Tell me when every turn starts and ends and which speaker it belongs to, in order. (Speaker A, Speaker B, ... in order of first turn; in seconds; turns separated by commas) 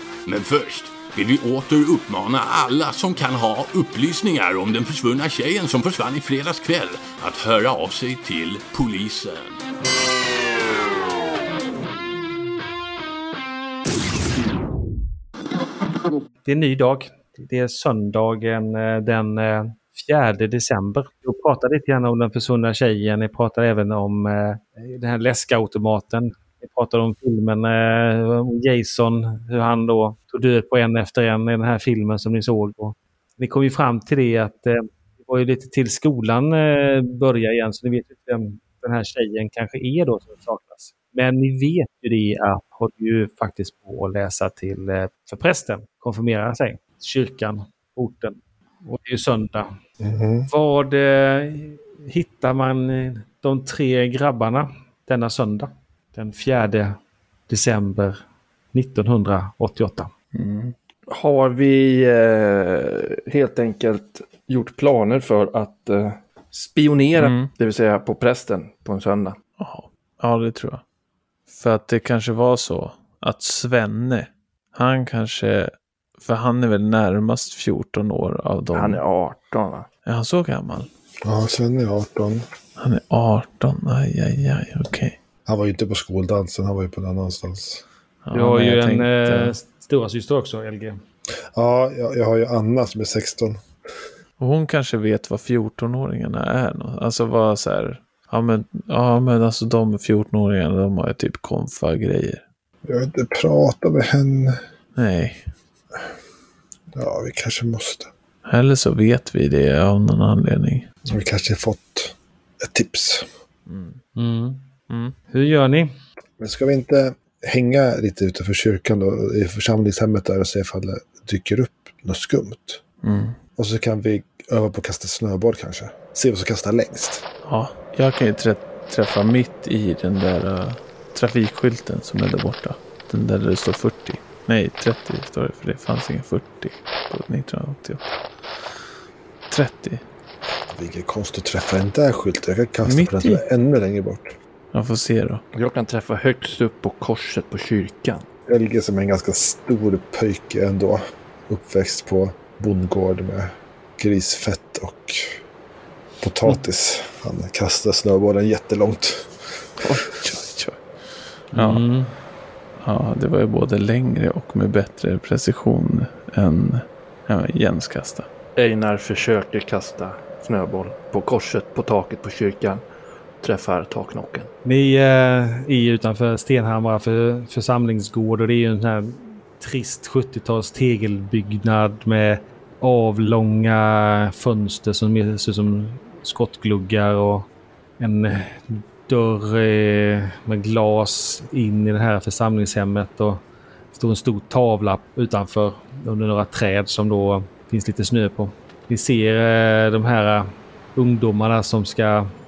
Speaker A: 0.2-9.6, Speaker B: 16.4-49.8, Speaker C: 50.0-50.5, Speaker B: 50.5-57.0, Speaker B: 57.5-58.2, Speaker B: 58.7-60.1, Speaker D: 60.3-60.7, Speaker E: 61.1-69.4, Speaker D: 67.2-67.5, Speaker D: 69.6-70.8, Speaker D: 71.5-79.0, Speaker E: 78.7-79.9, Speaker D: 80.0-80.9, Speaker C: 81.2-82.5, Speaker D: 82.8-85.2, Speaker C: 85.5-87.8, Speaker D: 88.2-89.5, Speaker B: 88.3-91.0, Speaker C: 91.5-93.6, Speaker D: 94.4-102.4, Speaker C: 102.8-104.6, Speaker D: 105.0-105.5, Speaker C: 106.9-108.1, Speaker D: 108.5-110.9, Speaker C: 111.1-113.3, Speaker D: 113.7-114.0, Speaker B: 114.2-114.6, Speaker D: 114.9-115.1, Speaker B: 115.3-115.9, Speaker C: 116.4-122.8, Speaker D: 123.0-123.4, Speaker C: 123.6-127.2, Speaker D: 127.4-138.0, Speaker D: 139.5-140.0, Speaker C: 140.7-144.3, Speaker D: 142.8-143.4, Speaker D: 144.7-145.4, Speaker E: 145.5-148.2, Speaker C: 148.5-155.4, Speaker C: 156.2-159.6, Speaker D: 159.8-160.8, Speaker D: 161.5-161.9, Speaker B: 161.5-162.1, Speaker D: 162.8-168.3, Speaker E: 168.6-172.8, Speaker E: 173.4-174.5, Speaker B: 174.6-187.5, Speaker B: 188.0-193.4, Speaker B: 193.9-202.3